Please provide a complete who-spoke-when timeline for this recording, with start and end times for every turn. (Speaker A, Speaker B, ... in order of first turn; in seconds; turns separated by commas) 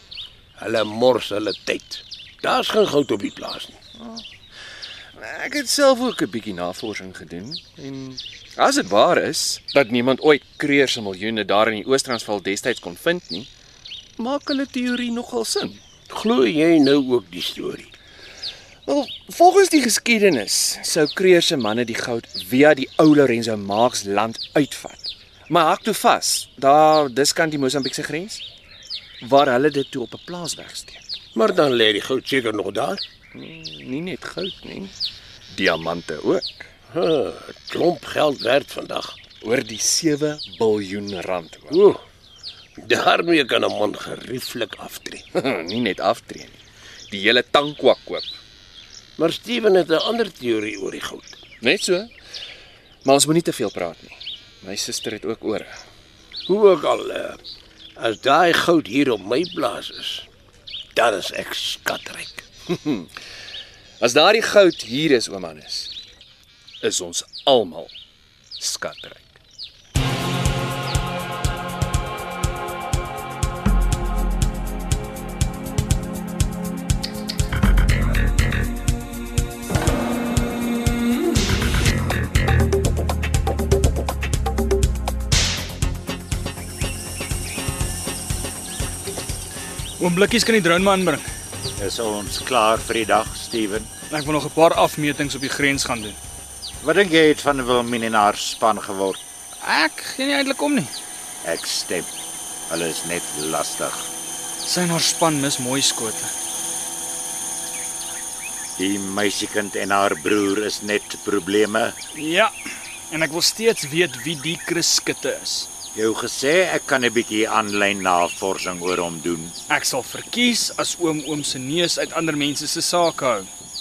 Speaker A: 0.6-3.8, Speaker B: 5.2-13.5, Speaker B: 14.2-15.8, Speaker A: 16.1-17.9, Speaker B: 18.9-28.4, Speaker B: 29.2-31.0, Speaker A: 31.4-33.0, Speaker B: 33.3-35.0, Speaker B: 35.5-36.7, Speaker A: 36.9-39.2, Speaker B: 39.4-41.8, Speaker A: 41.7-42.0, Speaker A: 42.8-45.2, Speaker B: 45.3-46.6, Speaker B: 47.1-48.3, Speaker A: 49.2-51.4, Speaker B: 51.6-52.1, Speaker B: 53.0-55.8, Speaker A: 56.5-57.4, Speaker A: 58.0-60.3, Speaker A: 61.0-62.5, Speaker B: 62.7-63.1, Speaker B: 64.0-65.9, Speaker B: 66.8-67.9, Speaker B: 68.6-69.4, Speaker C: 90.0-91.2, Speaker D: 91.8-93.9, Speaker C: 94.1-96.2, Speaker D: 96.8-99.2, Speaker C: 99.6-100.9, Speaker D: 101.4-102.1, Speaker D: 102.7-104.1, Speaker C: 104.7-106.3, Speaker D: 108.8-112.0, Speaker C: 112.1-112.5, Speaker C: 113.1-115.7, Speaker D: 115.9-119.5, Speaker C: 119.7-123.5